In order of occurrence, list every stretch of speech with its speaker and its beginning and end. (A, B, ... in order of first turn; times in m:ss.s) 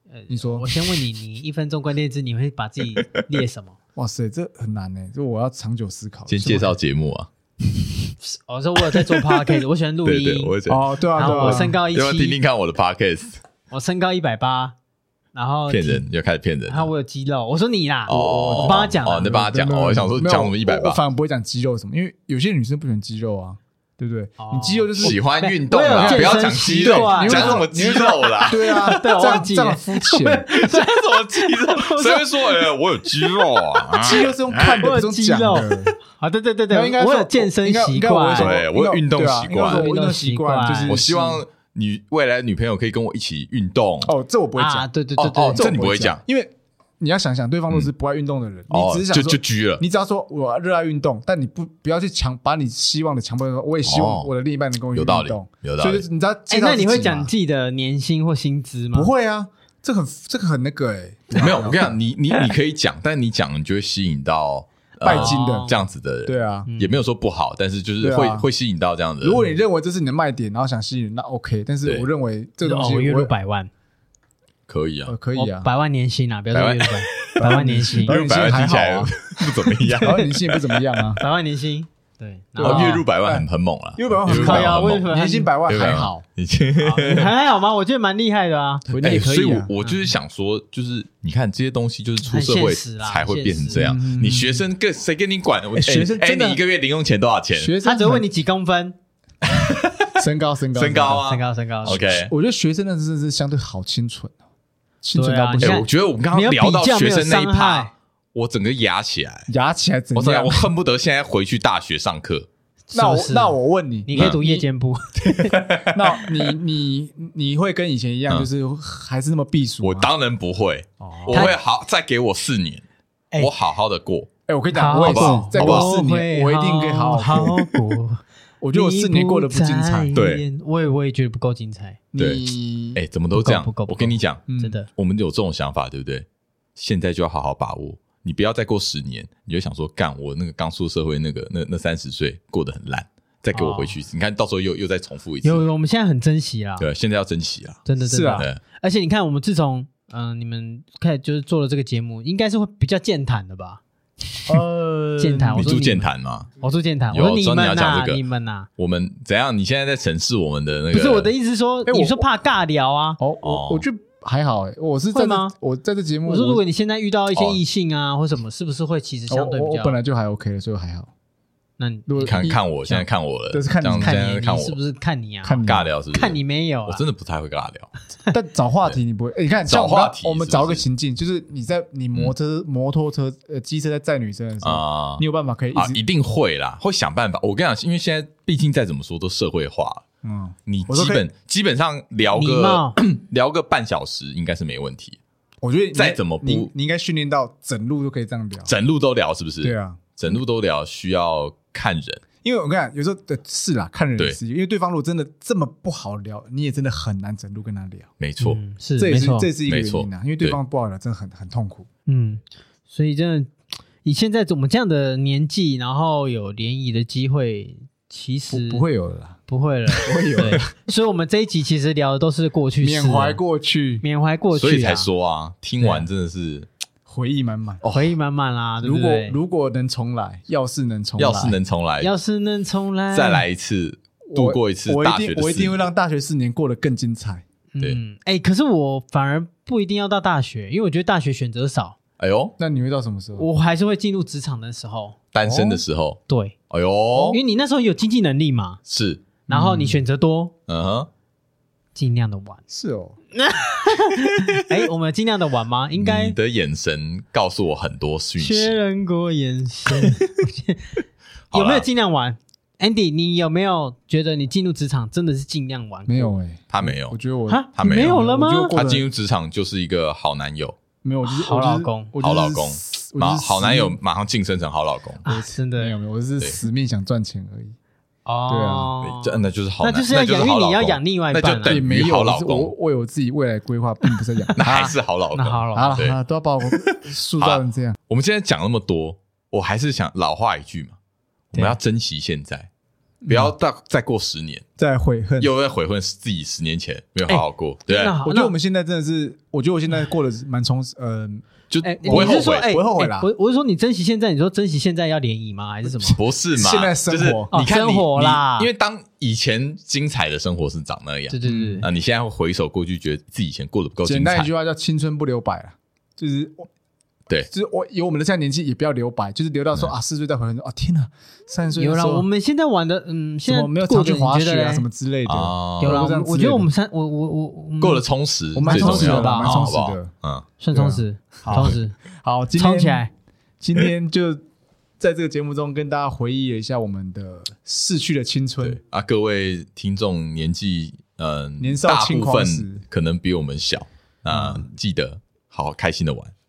0:00.1-0:03.8 A
0:00.3-0:00.8 B
0:04.0-0:06.7 B
0:06.3-0:07.3 C
0:08.2-0:10.5 A
0:08.8-0:13.4 C
0:10.7-0:11.7 B
0:11.2-0:12.4 A
0:13.7-0:14.8 A
0:15.3-0:16.0 A
0:15.7-0:16.9 C
0:16.7-0:19.4 A
0:18.1-0:21.0 C
0:18.1-0:25.2 B
0:24.4-0:33.8 A
0:25.0-0:29.1 C
0:25.9-0:30.5 B
0:30.5-0:34.9 C
0:34.0-0:35.9 B
0:34.6-0:38.6 A
0:36.7-0:41.4 B
0:38.4-0:39.8 C
0:39.6-0:41.0 A
0:40.9-0:44.1 C
0:44.0-0:44.9 B
0:44.6-0:45.7 A
0:45.2-0:46.2 C
0:45.5-0:57.3 B
0:48.7-0:49.8 C
0:53.8-0:54.3 C
0:54.9-0:56.0 C
0:56.5-0:59.1 A
0:58.9-1:02.0 B
1:01.3-1:09.4 C
1:05.0-1:05.7 B
1:05.0-1:05.8 A
1:06.2-1:06.7 B
1:06.7-1:07.0 A
1:08.0-1:08.5 B
1:09.2-1:13.3 B
1:12.6-1:13.7 A
1:14.7-1:15.1 C
1:15.1-1:15.7 B
1:15.3-1:18.7 A
1:16.5-1:20.8 C
1:17.4-1:19.1 B
1:20.0-1:21.2 B
1:21.2-1:23.0 A
1:22.6-1:26.2 B
1:22.6-1:25.1 C
1:24.4-1:25.5 A
1:25.7-1:27.3 C
1:26.8-1:28.8 A
1:28.9-1:37.7 C
1:28.9-1:29.7 B
1:32.2-1:33.8 A
1:33.7-1:34.6 B
1:35.7-1:36.6 B
1:37.5-1:38.2 B
1:37.8-1:39.0 A
1:39.4-1:40.2 C
1:40.2-1:41.2 B
1:40.7-1:42.3 C
1:41.2-1:42.0 A
1:41.9-1:44.4 B
1:45.0-1:45.9 B
1:45.1-1:47.9 A
1:45.6-1:49.5 C
1:49.5-1:50.7 B
1:50.1-1:52.5 C
1:52.9-1:55.6 A
1:52.9-1:54.4 B
1:54.1-1:54.6 C
1:55.2-1:56.5 C
1:55.8-2:00.1 B
1:59.8-2:02.8 C
2:01.0-2:01.6 B
2:01.3-2:01.5 A
2:03.4-2:04.3 C
2:04.5-2:07.7 B
2:04.7-2:08.2 A
2:04.9-2:05.9 C
2:08.6-2:10.1 B
2:08.7-2:12.0 A
2:10.1-2:10.4 C
2:12.1-2:13.0 B
2:12.2-2:12.4 C
2:12.9-2:25.6 C
2:13.3-2:14.9 A
2:14.5-2:14.8 B
2:23.5-2:24.0 A
2:25.4-2:26.9 A
2:26.8-2:27.8 C
2:27.8-2:33.8 A
2:28.0-2:28.5 B
2:34.5-2:35.7 B
2:35.2-2:38.7 A
2:35.6-2:36.5 C
2:37.1-2:38.2 C
2:38.8-2:41.3 C
2:40.9-2:43.2 A
2:41.8-2:42.3 B
2:43.2-2:46.6 B
2:43.4-2:43.8 C
2:45.1-2:45.5 A
2:46.2-2:50.0 A
2:47.3-2:47.6 C
2:49.3-2:51.1 B
2:51.8-2:52.6 A
2:52.1-2:54.2 B
2:52.2-2:54.8 C
2:54.0-2:57.0 A
2:55.4-2:55.9 B
2:55.6-2:57.9 C
2:58.3-3:06.0 B
2:59.7-3:00.8 C
3:04.6-3:10.0 C
3:10.2-3:11.2 B
3:10.7-3:15.2 C
3:12.3-3:13.0 A
3:15.6-3:18.7 B
3:15.9-3:16.7 C
3:18.6-3:22.2 C
3:19.6-3:20.4 B
3:22.4-3:28.1 B
3:28.2-3:28.6 C
3:28.4-3:29.5 A
3:29.0-3:31.9 B
3:29.6-3:30.6 C
3:32.1-3:33.5 A
3:34.0-3:38.8 A
3:38.5-3:40.7 B
3:39.5-3:43.4 A
3:42.8-3:44.0 B
3:44.0-3:45.1 A
3:44.5-3:46.7 C
3:47.0-3:47.8 B
3:47.8-3:48.1 C
3:47.9-3:49.4 A
3:48.8-3:51.6 B
3:51.2-3:52.1 C
3:52.0-3:53.4 A
3:53.1-3:55.8 C
3:54.3-3:57.4 B
3:57.7-4:02.0 A
4:02.2-4:02.5 C
4:02.6-4:03.5 B
4:03.4-4:05.2 A
4:05.3-4:07.4 C
4:05.4-4:05.8 B
4:06.3-4:06.5 A
4:07.2-4:08.8 A
4:08.9-4:09.4 C
4:09.5-4:09.9 B
4:09.5-4:10.5 A
4:10.7-4:11.1 C
4:11.9-4:12.6 A
4:12.7-4:13.2 B
4:13.3-4:16.4 A
4:16.0-4:18.8 C
4:18.4-4:21.0 A
4:21.5-4:21.8 C
4:21.5-4:26.3 A
4:26.1-4:29.0 B
4:26.7-4:27.2 C
4:27.5-4:28.8 A
4:27.8-4:30.8 C
4:31.0-4:34.0 B
4:31.2-4:32.1 A
4:32.2-4:35.2 C
4:35.2-4:36.0 A
4:35.2-4:37.8 B
4:38.2-4:41.8 A
4:38.5-4:38.9 B
4:39.0-4:42.7 C
4:41.6-4:44.9 B
4:44.4-4:44.8 A
4:44.6-4:51.0 C
4:45.3-4:46.0 A
4:45.7-4:48.0 B
4:51.5-4:52.7 C
4:53.2-4:53.5 B
4:53.3-4:54.6 C
4:54.8-4:55.5 B
4:55.4-4:58.2 C
4:57.3-4:58.5 A
4:58.2-5:01.5 B
5:01.7-5:02.7 C
5:01.8-5:06.2 A
5:02.0-5:03.3 B
5:06.0-5:14.5 C
5:06.5-5:07.5 B
5:07.5-5:08.7 A
5:11.3-5:11.9 A
5:11.4-5:11.8 B
5:14.0-5:16.7 B
5:17.5-5:22.2 B
5:21.8-5:24.8 A
5:23.4-5:26.7 B
5:25.2-5:26.0 C
5:25.8-5:28.0 A
5:27.8-5:30.5 C
5:28.5-5:30.1 B
5:28.6-5:29.7 A
5:30.6-5:32.0 A
5:30.7-5:33.0 B
5:31.5-5:31.8 C
5:32.6-5:33.1 A
5:33.6-5:34.4 B
5:35.0-5:38.8 B
5:38.6-5:46.3 C
5:41.6-5:42.8 B
5:44.3-5:44.6 B